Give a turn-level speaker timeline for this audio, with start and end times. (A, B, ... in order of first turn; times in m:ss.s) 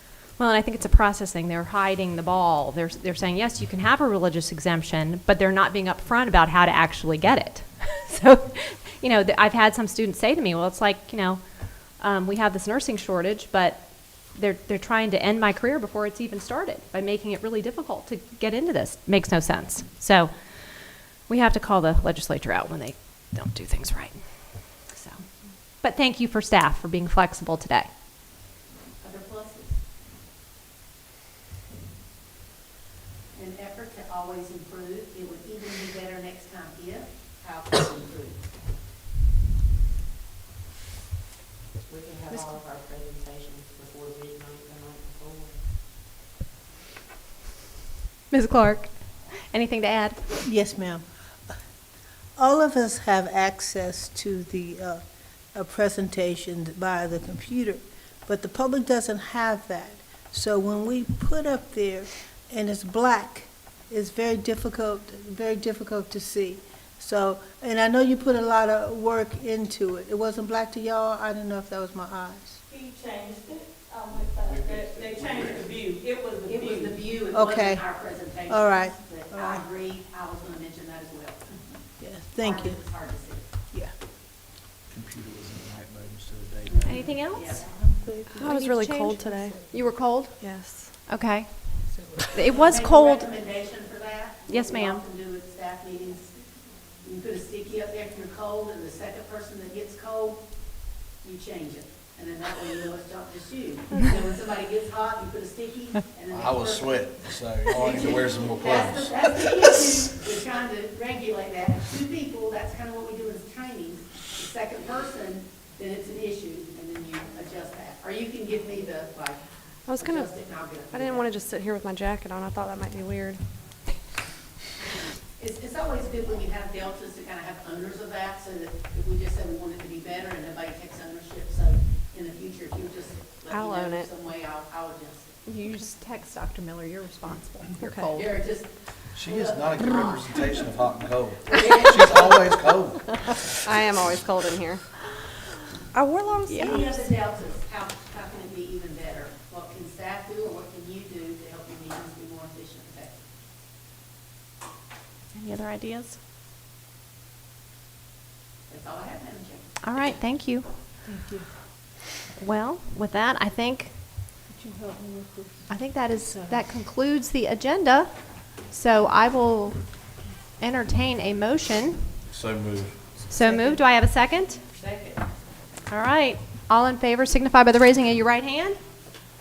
0:00.4-0:27.9 A
0:29.0-0:29.8 B
0:33.3-0:38.6 B
0:41.8-0:45.6 C
0:48.3-0:50.2 A
0:50.4-0:51.0 D
0:52.4-0:55.0 D
0:55.5-1:12.6 D
1:12.7-1:16.8 E
1:14.4-1:15.7 F
1:16.4-1:21.6 B
1:17.3-1:18.0 D
1:18.5-1:19.6 D
1:22.0-1:23.0 D
1:22.4-1:23.5 B
1:24.9-1:27.1 F
1:26.7-1:27.8 B
1:26.9-1:27.7 A
1:28.3-1:30.4 A
1:28.4-1:29.6 G
1:30.4-1:30.9 G
1:31.0-1:33.3 A
1:32.4-1:36.3 B
1:34.5-1:35.0 A
1:37.0-1:59.4 B
1:46.3-1:49.5 F
1:59.8-2:03.4 G
2:00.0-2:01.3 B
2:05.4-2:15.4 B
2:13.5-2:14.1 G
2:15.5-2:18.3 A
2:18.0-2:20.2 B
2:19.1-2:23.5 F
2:21.4-2:22.4 B
2:23.6-2:24.8 G
2:25.9-2:26.8 G
2:26.5-2:26.9 A
2:26.5-2:33.2 B
2:35.3-2:36.2 A
2:38.7-2:39.7 B
2:39.8-2:40.7 A
2:41.1-2:41.4 D
2:42.4-2:43.9 A
2:44.5-2:45.7 D
2:45.7-2:52.1 A
2:46.3-2:46.6 D
2:52.3-2:53.0 F
2:53.3-2:54.6 A
2:54.8-2:55.2 C
2:55.9-2:58.8 A